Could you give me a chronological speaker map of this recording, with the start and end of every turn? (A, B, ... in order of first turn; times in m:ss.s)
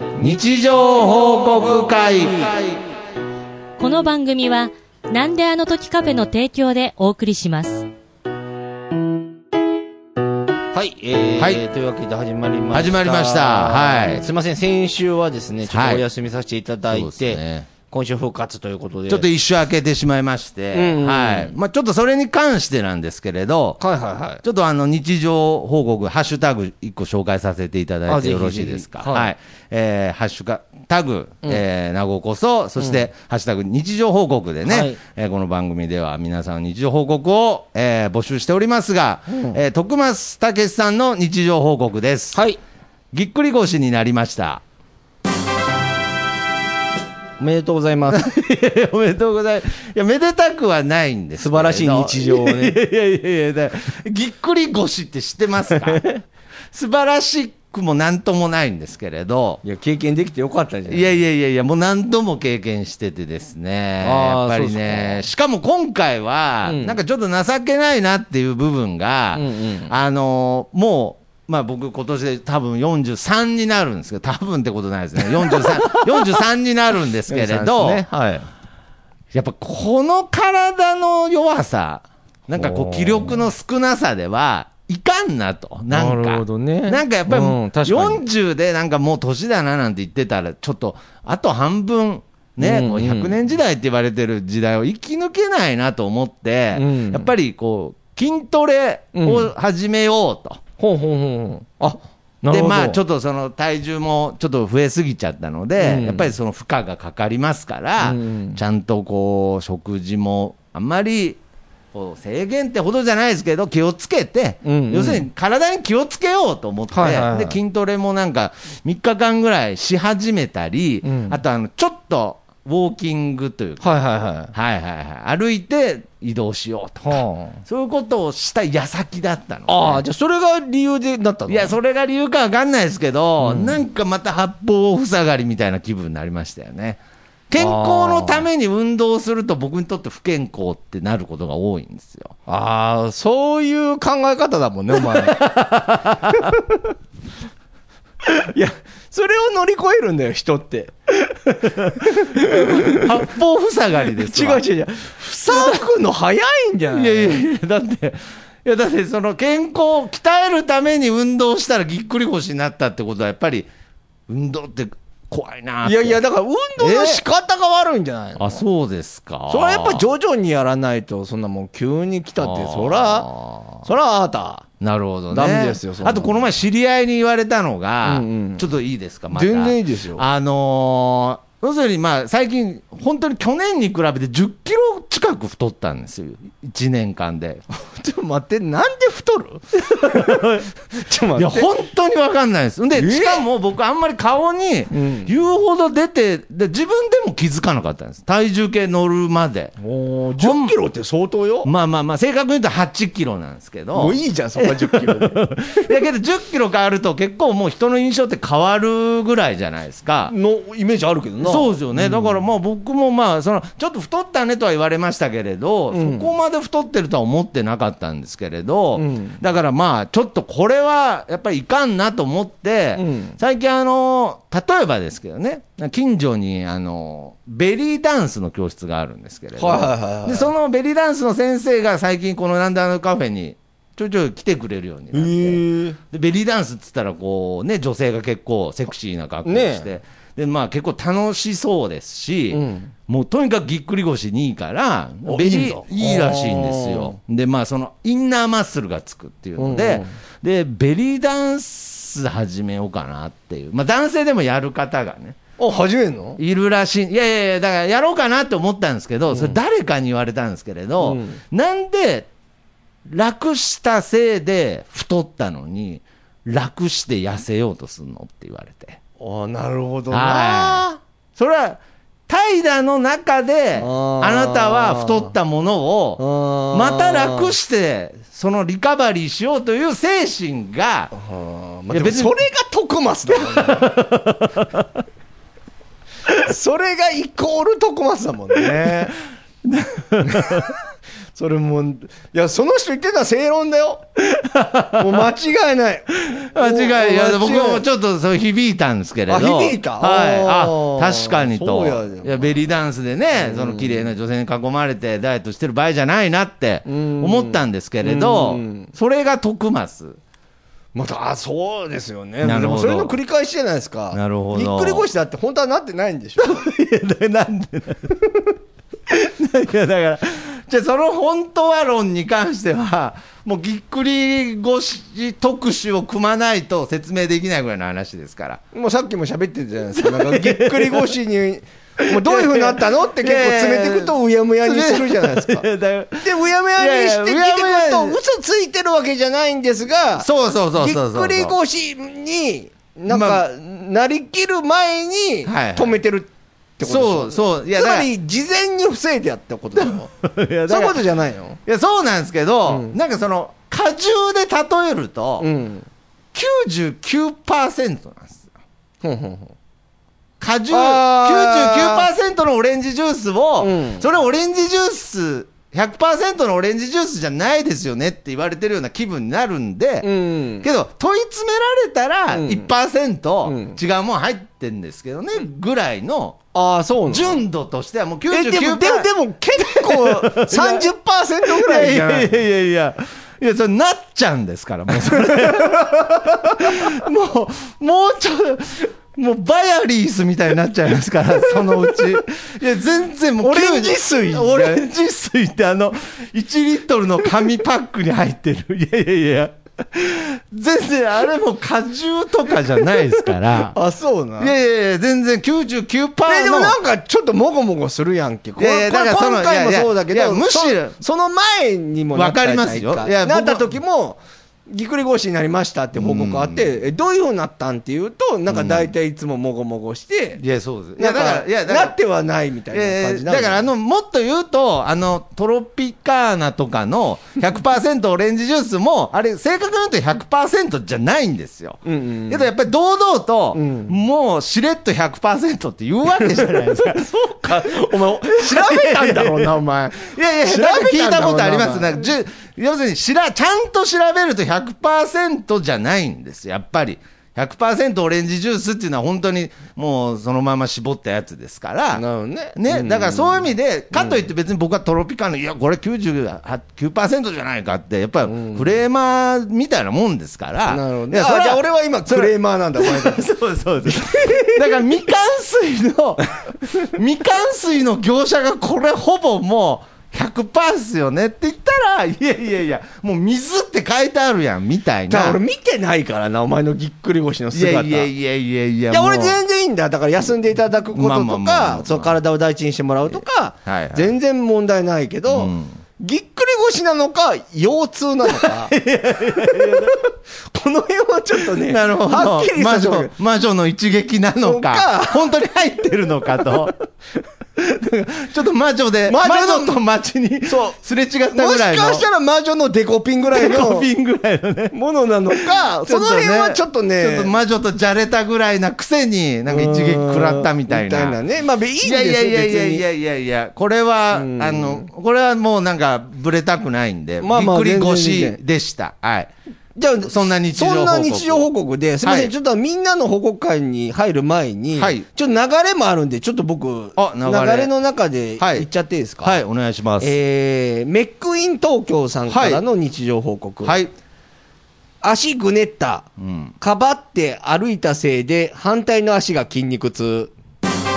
0:00.2-0:02.8 A
0:02.0-0:02.6 B
0:03.8-0:07.9 C
0:10.7-0:19.3 B
0:12.7-0:14.2 A
0:15.7-0:16.0 A
0:16.9-0:17.7 A
0:19.1-0:23.8 A
0:20.7-0:21.6 B
0:23.8-0:24.4 B
0:24.4-0:42.4 A
0:28.1-0:29.3 B
0:34.6-0:35.0 B
0:39.3-0:39.6 B
0:42.3-0:42.6 B
0:43.1-0:44.6 A
0:47.4-0:48.2 B
0:48.1-0:56.0 A
0:51.4-0:52.8 B
0:55.8-0:56.2 B
0:56.7-0:59.6 A
0:59.6-1:01.1 B
1:00.9-1:18.5 A
1:04.0-1:05.2 B
1:06.6-1:07.0 B
1:09.3-1:09.9 B
1:15.2-1:16.4 B
1:17.3-1:18.0 B
1:19.3-1:40.6 A
1:22.5-1:23.4 B
1:25.9-1:28.2 B
1:32.6-1:33.3 B
1:36.7-1:37.3 B
1:39.1-1:39.5 B
1:40.8-1:43.0 B
1:42.4-1:51.4 A
1:45.8-1:46.3 B
1:48.0-1:48.6 B
1:51.9-2:03.9 A
1:54.6-1:55.3 B
1:56.9-1:57.6 B
2:01.0-2:01.4 B
2:03.8-2:04.5 B
2:04.5-2:10.0 A
2:07.0-2:07.6 B
2:09.7-2:11.7 B
2:11.5-2:22.4 A
2:13.4-2:13.8 B
2:17.6-2:18.4 B
2:22.5-2:25.4 B
2:24.9-2:26.6 A
2:28.2-2:33.2 B
2:31.8-2:34.6 A
2:34.1-2:37.4 B
2:35.5-2:35.8 A
2:36.9-2:43.7 A
2:44.3-2:46.2 A
2:45.8-2:48.6 B
2:46.8-2:47.2 A
2:48.4-2:50.0 A
2:49.5-2:53.3 B
2:52.4-2:53.8 A
2:53.8-2:54.6 B
2:54.8-3:07.7 A
2:55.3-2:56.4 B
2:58.0-2:58.6 B
2:59.3-3:00.2 B
3:07.8-3:11.7 B
3:10.0-3:10.6 A
3:11.4-3:19.7 A
3:12.9-3:13.4 B
3:14.9-3:15.3 B
3:19.8-3:21.7 B
3:20.4-3:20.7 A
3:21.6-3:30.3 A
3:23.9-3:25.4 B
3:30.2-3:32.4 B
3:31.4-4:15.4 A
3:35.9-3:36.3 B
3:39.0-3:39.4 B
3:43.0-3:43.4 B
3:49.6-3:50.5 B
3:55.1-3:56.0 B
3:59.4-3:59.9 B
4:02.5-4:02.9 B
4:05.3-4:07.2 B
4:09.6-4:10.1 B
4:15.6-4:16.4 B
4:16.4-4:22.3 A
4:19.3-4:19.6 B
4:21.0-4:21.4 B
4:23.0-4:29.0 A
4:29.2-4:31.0 B
4:30.1-4:41.1 A
4:33.8-4:35.3 B
4:36.2-4:37.5 B
4:41.1-4:43.9 B
4:41.9-4:42.4 A
4:43.3-4:44.9 A
4:46.4-4:49.1 B
4:49.6-4:50.7 A
4:50.2-4:50.7 B
4:51.3-4:54.0 B
4:54.4-4:55.3 A
4:55.0-4:57.8 B
4:56.4-5:10.2 A
4:59.3-5:02.5 B
5:03.3-5:04.0 B
5:06.8-5:08.9 B
5:10.9-5:16.5 B
5:12.4-5:13.1 A
5:14.1-5:15.0 A
5:16.4-5:18.4 A
5:19.1-5:28.6 A
5:28.7-5:35.7 B
5:30.0-5:31.1 A
5:32.1-5:38.2 A
5:36.2-5:50.1 B
5:40.2-5:41.5 A
5:43.1-5:43.4 A
5:45.4-5:46.0 A
5:46.8-5:48.1 A
5:49.8-5:51.0 A
5:50.7-5:51.6 B
5:51.6-5:55.5 A
5:52.7-5:52.9 B
5:55.4-5:55.9 B
5:56.3-5:58.4 A
5:59.0-5:59.5 B
6:00.4-6:10.1 A
6:00.7-6:02.1 B
6:03.6-6:04.1 B
6:10.0-6:10.6 B
6:10.6-6:16.4 A
6:12.3-6:12.7 B
6:13.4-6:13.8 B
6:16.5-6:17.4 B
6:17.1-6:20.9 A
6:18.3-6:22.4 B
6:21.4-6:43.8 A
6:25.1-6:25.9 B
6:31.8-6:32.1 B
6:33.4-6:34.8 B
6:43.7-6:44.5 B
6:44.4-6:46.8 A
6:46.2-7:00.4 B
6:48.6-6:51.0 A
6:52.1-6:53.7 A
6:55.9-6:56.7 A
6:58.5-6:58.9 A
7:00.4-7:02.0 A
7:01.0-7:03.7 B
7:02.7-7:32.0 A
7:11.8-7:12.5 B
7:13.5-7:13.9 B
7:16.1-7:22.1 B
7:31.9-7:34.2 B
7:32.6-7:55.4 A
7:38.3-7:38.7 B
7:40.7-7:43.3 B
7:43.8-7:44.8 B
7:55.1-7:58.1 B
7:57.5-7:59.4 A
7:58.9-8:08.7 B
8:00.9-8:02.1 A
8:03.1-8:04.1 A
8:05.3-8:05.8 A
8:08.3-8:10.0 A
8:09.3-8:13.1 B
8:11.6-8:16.7 A
8:14.4-8:15.3 B
8:17.6-8:22.0 A
8:19.1-8:19.8 B
8:20.4-8:20.8 B
8:21.3-8:23.9 B
8:23.3-8:24.7 A
8:24.7-8:27.3 B
8:25.3-8:31.2 A
8:29.5-8:32.8 B
8:31.8-8:39.3 A
8:34.1-8:34.9 B
8:37.2-8:38.4 B
8:39.8-8:49.4 B
8:40.0-8:41.5 A
8:42.0-8:42.3 A
8:44.8-8:45.0 A
8:47.0-8:47.7 A
8:48.4-8:48.7 A
8:49.2-8:50.1 A
8:50.0-8:53.8 B
8:52.3-8:52.6 A
8:53.6-8:53.9 A
8:55.0-8:56.1 B
8:56.2-8:56.5 A
8:56.6-9:00.3 B